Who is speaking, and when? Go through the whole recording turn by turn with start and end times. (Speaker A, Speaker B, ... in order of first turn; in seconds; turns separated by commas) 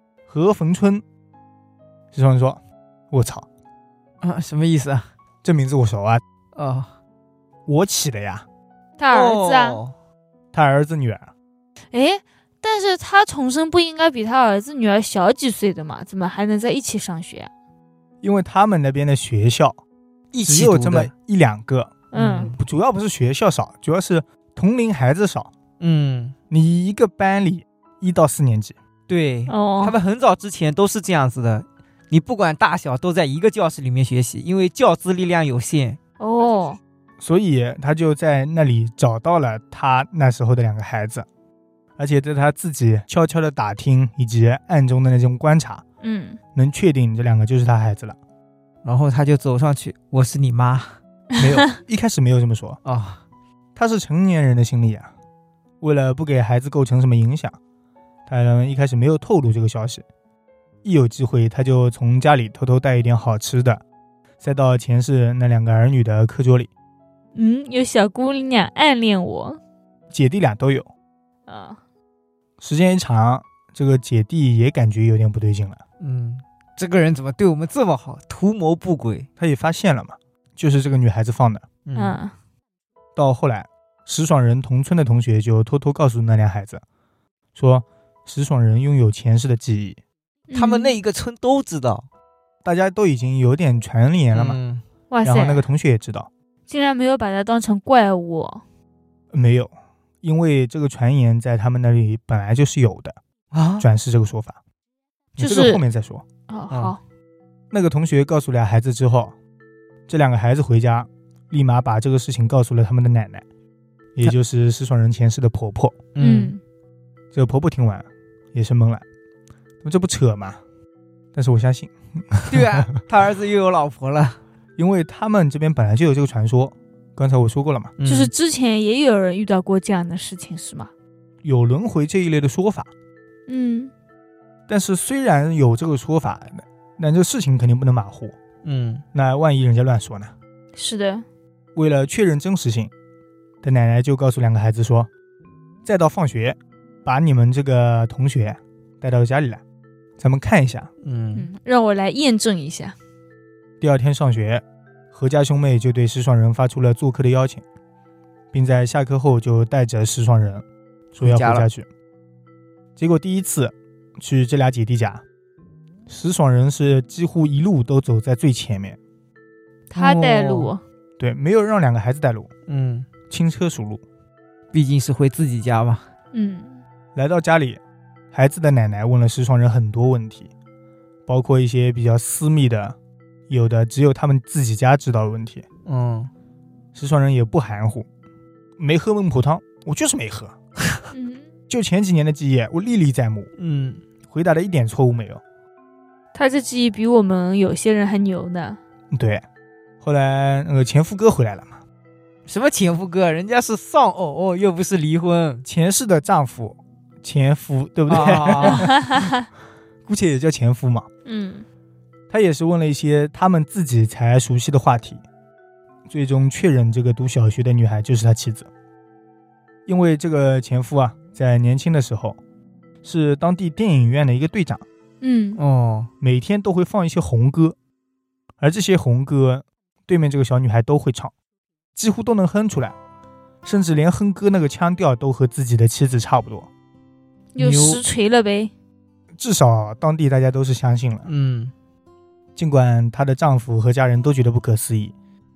Speaker A: 0.3-1.0, Speaker A: 2.1-2.6, Speaker A: 3.1-3.5, Speaker B: 4.2-5.1, Speaker A: 5.4-6.2, Speaker B: 6.6-6.9, Speaker A: 7.7-8.5, Speaker C: 9.0-9.8, Speaker B: 9.1-9.9, Speaker A: 10.5-11.3, Speaker C: 11.9-17.5, Speaker A: 18.2-19.8, Speaker B: 20.3-21.1, Speaker A: 20.4-25.5, Speaker C: 22.1-22.5, Speaker B: 22.1-22.6, Speaker B: 25.8-26.4, Speaker A: 26.5-28.8, Speaker B: 29.1-36.0, Speaker C: 29.5-30.0, Speaker C: 36.2-36.8, Speaker A: 37.2-41.3, Speaker A: 42.0-45.8, Speaker C: 46.0-46.4, Speaker A: 46.5-48.2, Speaker B: 48.8-51.0, Speaker A: 51.4-52.8, Speaker B: 52.9-53.2, Speaker A: 53.8-55.1, Speaker A: 55.8-57.6, Speaker A: 58.3-60.0, Speaker A: 60.8-63.8, Speaker A: 64.4-66.7, Speaker C: 67.3-69.6, Speaker A: 70.1-70.9, Speaker C: 71.5-71.8, Speaker A: 72.6-75.8, Speaker B: 76.0-79.3, Speaker A: 79.4-81.6, Speaker B: 81.9-82.2, Speaker C: 82.0-82.3, Speaker A: 83.2-86.8, Speaker A: 87.5-90.0, Speaker C: 90.5-91.0, Speaker B: 90.5-92.1, Speaker A: 92.6-94.6, Speaker B: 94.3-94.8, Speaker C: 95.1-95.7, Speaker A: 95.3-96.3, Speaker C: 96.7-98.6, Speaker A: 99.3-103.2, Speaker B: 103.5-103.9, Speaker A: 103.8-104.6, Speaker A: 105.4-106.2, Speaker C: 105.4-105.8, Speaker C: 106.5-107.0, Speaker B: 106.7-107.0, Speaker A: 107.7-109.3, Speaker A: 110.1-113.4, Speaker A: 114.2-116.0, Speaker B: 116.2-116.5, Speaker C: 116.2-116.6, Speaker A: 117.3-119.0, Speaker A: 119.8-120.6, Speaker A: 121.3-122.9, Speaker B: 122.5-124.4, Speaker A: 124.8-127.9, Speaker B: 128.0-128.3, Speaker C: 128.1-130.9, Speaker A: 131.4-132.9, Speaker C: 133.5-133.9, Speaker A: 134.7-138.3, Speaker B: 138.6-139.0, Speaker A: 139.1-140.3, Speaker C: 140.8-141.2, Speaker A: 141.8-142.9, Speaker A: 143.6-145.1, Speaker A: 145.8-149.6, Speaker A: 150.2-150.9, Speaker B: 151.0-151.5, Speaker C: 151.3-152.9, Speaker A: 153.8-157.6, Speaker A: 158.5-160.7, Speaker B: 161.2-161.7, Speaker A: 161.2-161.9, Speaker A: 163.0-165.2, Speaker A: 166.1-169.0, Speaker C: 169.9-170.8, Speaker B: 170.0-170.7, Speaker A: 171.2-172.5, Speaker B: 172.7-173.1, Speaker A: 173.3-174.0, Speaker B: 174.7-176.1, Speaker C: 176.3-176.8, Speaker A: 177.2-177.8, Speaker A: 178.3-180.5, Speaker A: 181.3-183.0, Speaker A: 183.5-185.7, Speaker B: 185.9-186.3, Speaker A: 186.9-188.1, Speaker A: 188.8-190.6, Speaker C: 191.1-191.5, Speaker A: 191.7-193.5, Speaker B: 193.6-194.0, Speaker A: 194.3-195.4, Speaker C: 196.3-198.8, Speaker A: 199.1-199.4, Speaker A: 200.0-201.8, Speaker B: 202.5-205.7, Speaker A: 205.7-209.3, Speaker B: 208.1-208.9, Speaker C: 208.6-209.5, Speaker A: 210.1-211.1, Speaker C: 211.2-211.7, Speaker A: 212.3-215.2, Speaker A: 216.1-218.7, Speaker A: 219.9-222.4, Speaker A: 223.0-224.8, Speaker C: 225.2-225.6, Speaker B: 225.6-226.1, Speaker A: 226.2-227.8, Speaker A: 228.6-231.3, Speaker A: 232.0-233.0, Speaker A: 233.6-236.7, Speaker C: 237.5-238.7, Speaker B: 237.6-238.0, Speaker A: 239.4-241.3, Speaker B: 241.3-241.7, Speaker A: 242.6-245.2